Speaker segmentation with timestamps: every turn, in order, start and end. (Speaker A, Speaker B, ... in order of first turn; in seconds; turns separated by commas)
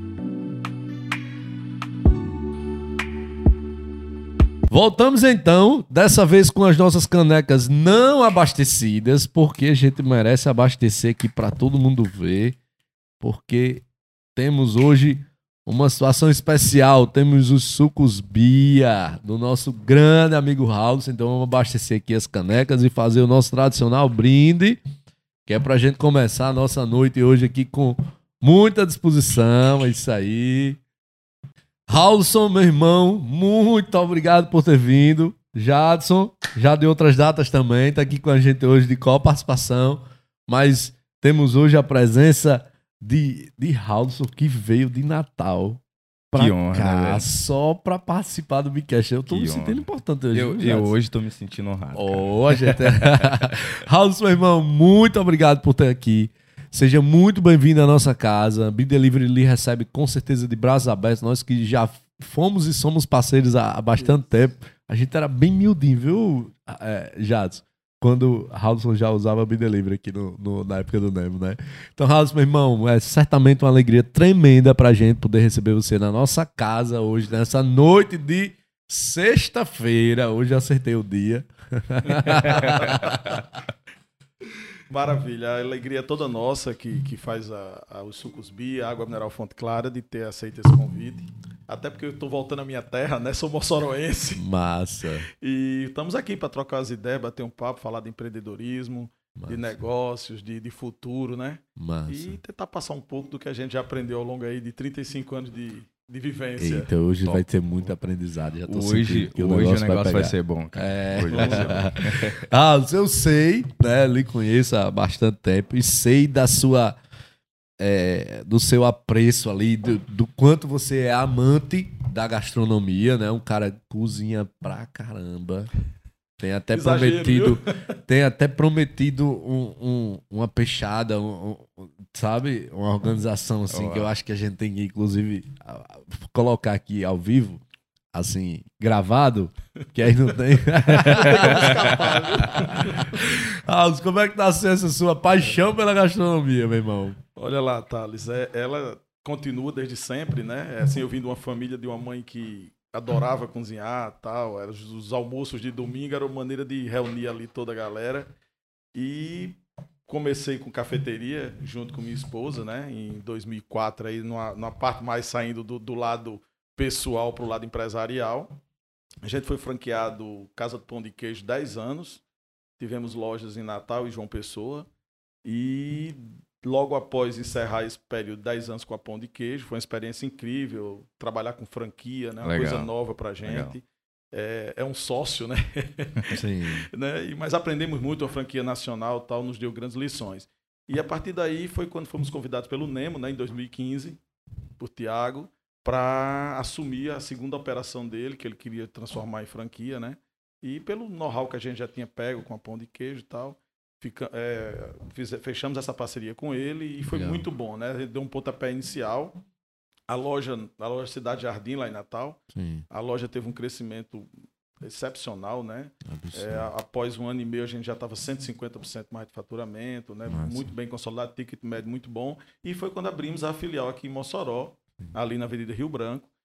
Speaker A: 4.7-12.6, Speaker A: 13.2-13.8, Speaker A: 14.3-24.8, Speaker A: 25.5-30.8, Speaker A: 31.9-50.9, Speaker B: 46.4-47.3, Speaker B: 49.3-53.5, Speaker A: 51.9-83.6, Speaker C: 64.0-64.3, Speaker B: 82.5-83.0, Speaker C: 82.8-83.1, Speaker C: 84.9-94.5, Speaker A: 94.4-95.3, Speaker C: 95.3-106.9, Speaker A: 99.4-99.8, Speaker A: 101.8-102.4, Speaker A: 106.6-117.0, Speaker B: 108.7-112.4, Speaker C: 111.3-112.0, Speaker A: 117.8-125.7, Speaker A: 126.4-137.6, Speaker C: 126.7-127.7, Speaker B: 133.7-134.1, Speaker A: 138.1-147.2, Speaker C: 140.9-143.2, Speaker B: 141.1-142.1, Speaker C: 147.4-158.3, Speaker C: 158.9-168.6, Speaker C: 169.2-172.2, Speaker C: 172.8-174.9, Speaker C: 175.4-194.2, Speaker B: 182.4-182.9, Speaker B: 183.4-183.8, Speaker A: 186.3-186.9, Speaker C: 194.8-209.4, Speaker A: 207.1-207.4, Speaker C: 210.1-214.3, Speaker A: 212.5-212.8, Speaker C: 214.8-226.3, Speaker A: 216.1-216.7, Speaker A: 220.3-220.7